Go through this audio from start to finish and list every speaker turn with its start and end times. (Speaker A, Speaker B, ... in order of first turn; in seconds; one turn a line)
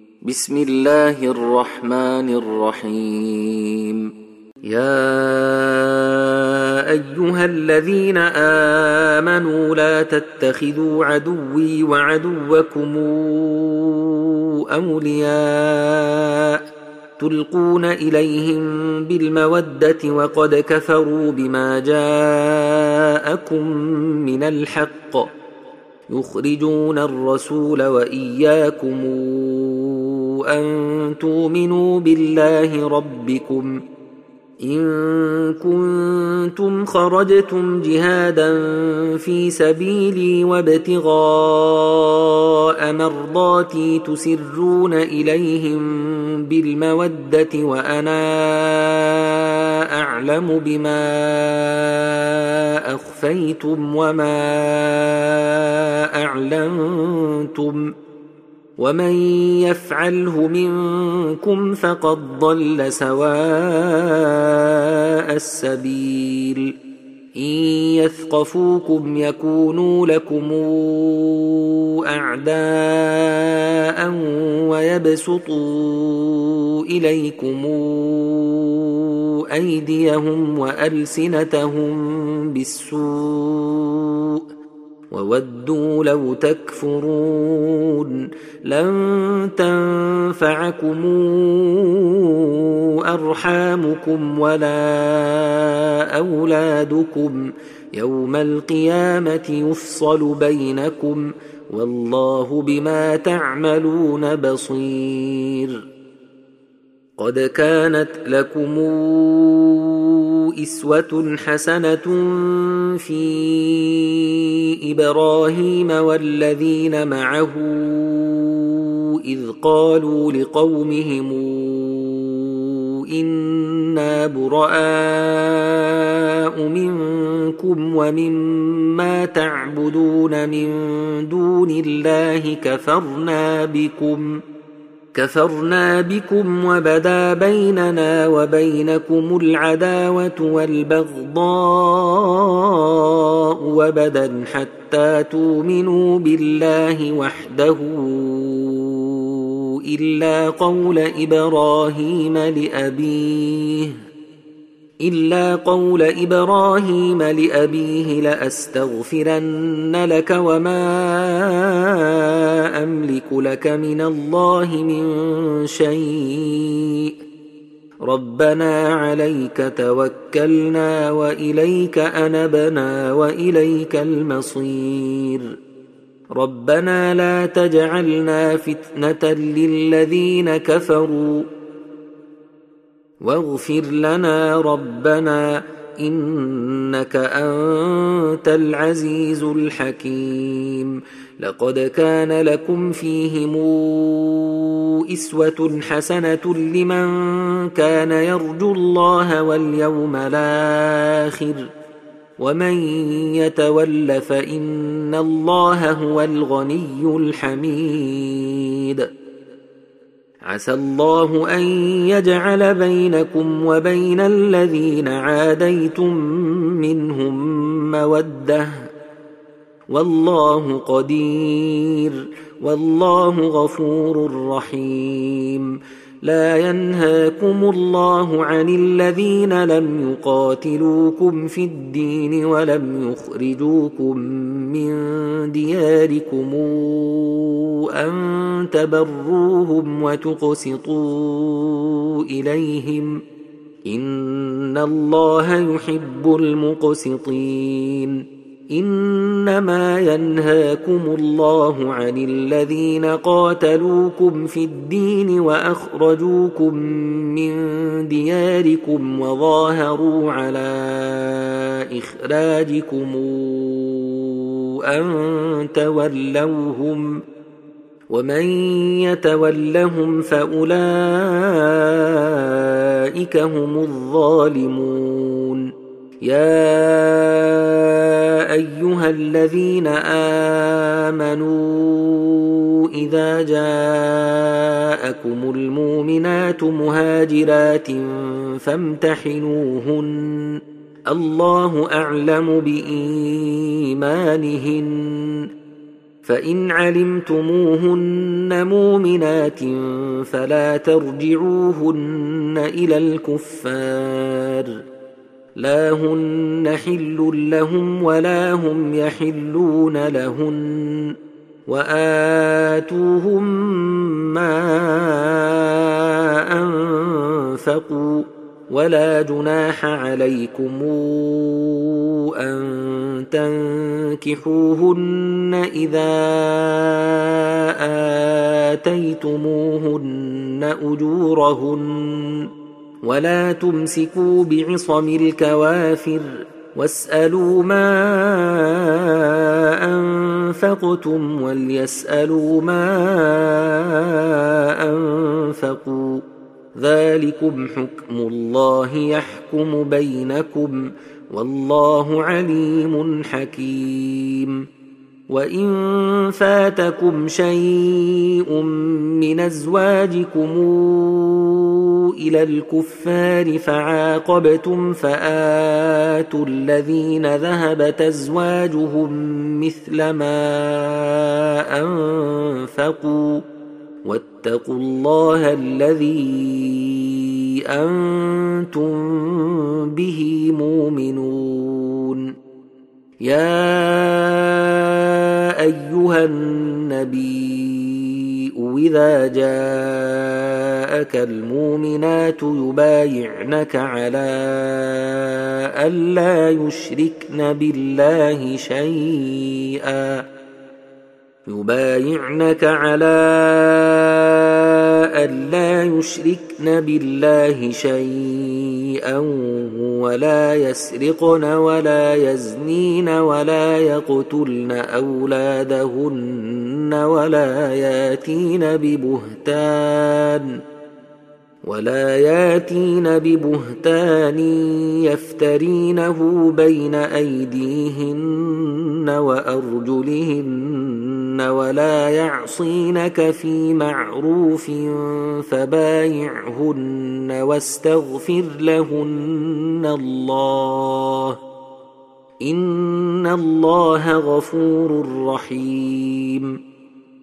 Speaker A: 0.2-4.0
Speaker A: 4.7-16.6
Speaker A: 17.2-25.3
Speaker A: 26.1-33.7
Speaker A: 34.6-57.9
Speaker A: 58.8-66.7
Speaker A: 67.4-84.5
Speaker A: 85.1-105.8
Speaker A: 107.2-134.3
Speaker A: 135.1-154.0
Speaker A: 155.0-167.1
Speaker A: 168.1-175.5
Speaker A: 176.3-181.5
Speaker A: 183.2-201.7
Speaker A: 202.4-209.1
Speaker A: 210.5-218.9
Speaker A: 219.9-243.2
Speaker A: 243.9-248.2
Speaker A: 248.7-267.2
Speaker A: 268.1-275.6
Speaker A: 276.2-295.4
Speaker A: 296.2-304.8
Speaker A: 305.6-311.1
Speaker A: 311.7-332.5
Speaker A: 333.0-346.2
Speaker A: 346.8-354.6
Speaker A: 355.3-373.4
Speaker A: 374.0-382.3
Speaker A: 383.2-400.2
Speaker A: 401.5-420.5
Speaker A: 421.6-441.4
Speaker A: 442.4-446.6